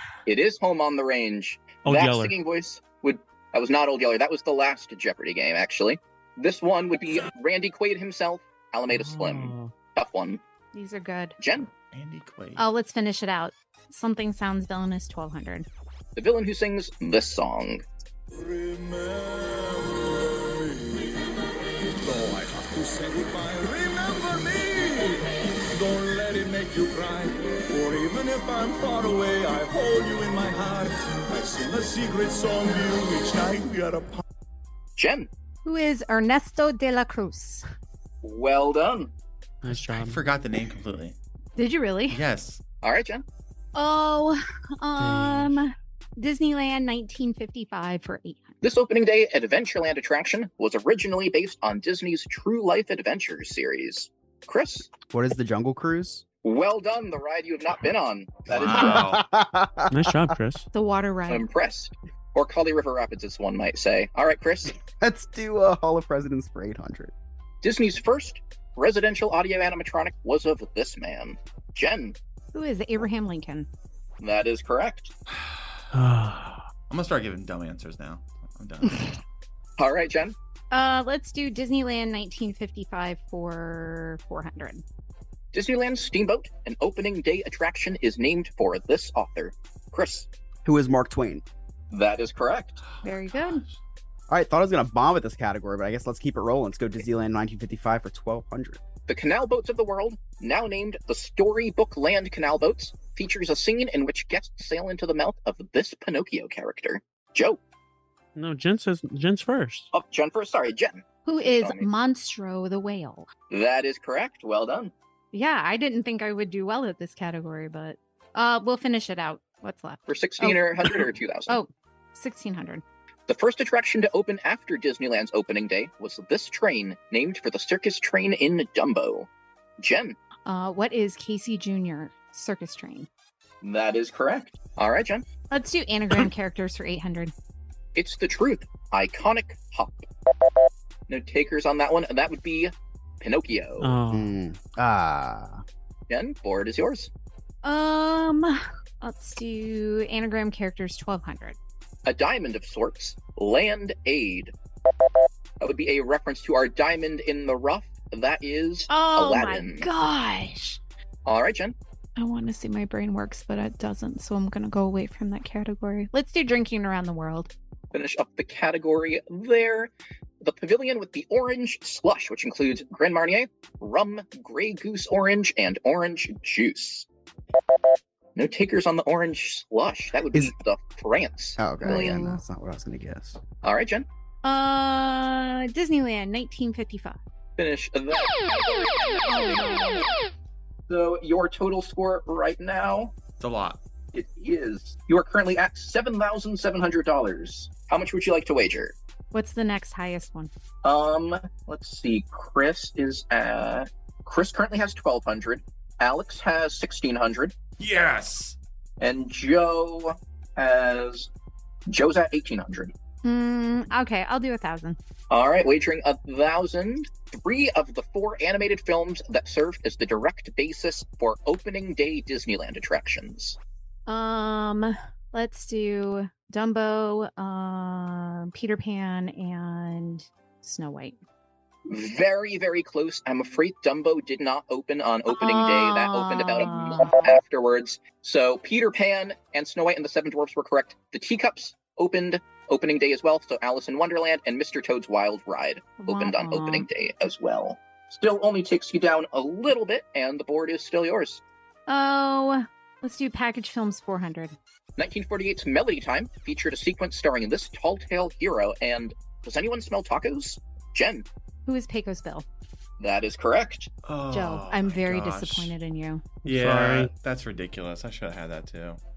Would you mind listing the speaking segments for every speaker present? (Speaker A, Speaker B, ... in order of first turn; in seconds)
Speaker A: 0.3-10.4, 11.4-11.7, 16.2-17.8, 35.0-35.3, 38.2-39.1, 42.8-43.2, 48.6-54.9, 56.4-59.1, 61.3-64.7, 67.6-72.2, 74.2-75.1, 79.8-80.4, 85.5-90.3, 91.9-92.8, 99.1-107.6, 109.9-111.9, 113.5-114.9, 120.1-121.6, 123.3-129.3, 129.8-130.2, 133.6-135.2, 138.0-140.1, 141.1-143.9, 146.1-147.1, 152.1-154.5, 155.6-159.9, 161.3-161.8, 167.9-169.9, 170.4-177.1, 178.4-182.2, 183.6-184.1, 187.6-189.9, 190.9-193.1, 194.1-198.9, 200.8-207.5, 209.0-211.3, 211.9-212.9, 215.3-223.6, 231.9-251.4, 255.0-261.2, 263.0-263.9
Speaker B: 1.9-2.3, 8.9-9.7, 39.6-40.2, 45.0-45.6, 59.9-60.7, 75.9-76.7, 108.3-109.9, 143.8-144.4, 266.4-267.1
Speaker C: 10.7-11.4, 12.6-15.7, 35.6-37.6, 41.6-42.2, 43.8-48.5, 60.7-61.5, 72.5-73.7, 80.7-84.8, 93.0-93.6, 111.2-113.3, 115.3-122.8, 130.5-133.1, 135.5-137.3, 147.6-151.6, 158.9-160.8, 162.2-167.5, 181.8-182.4, 184.4-187.2, 189.2-190.1, 199.3-200.5, 213.2-215.0, 224.1-231.2, 235.3-237.3, 246.0-246.9, 251.9-254.6, 261.7-262.4, 264.3-266.3
Speaker D: 11.9-12.7, 39.6-41.2, 42.1-42.6, 58.5-59.2, 76.9-79.1, 93.0-93.8, 193.4-193.8, 207.8-208.6, 264.0-265.7, 266.5-269.0
Speaker E: 18.3-21.4, 22.0-34.2
Speaker F: 55.1-56.2, 58.6-60.3, 65.0-67.1, 90.7-91.4, 94.3-98.8, 144.1-145.6, 181.6-183.4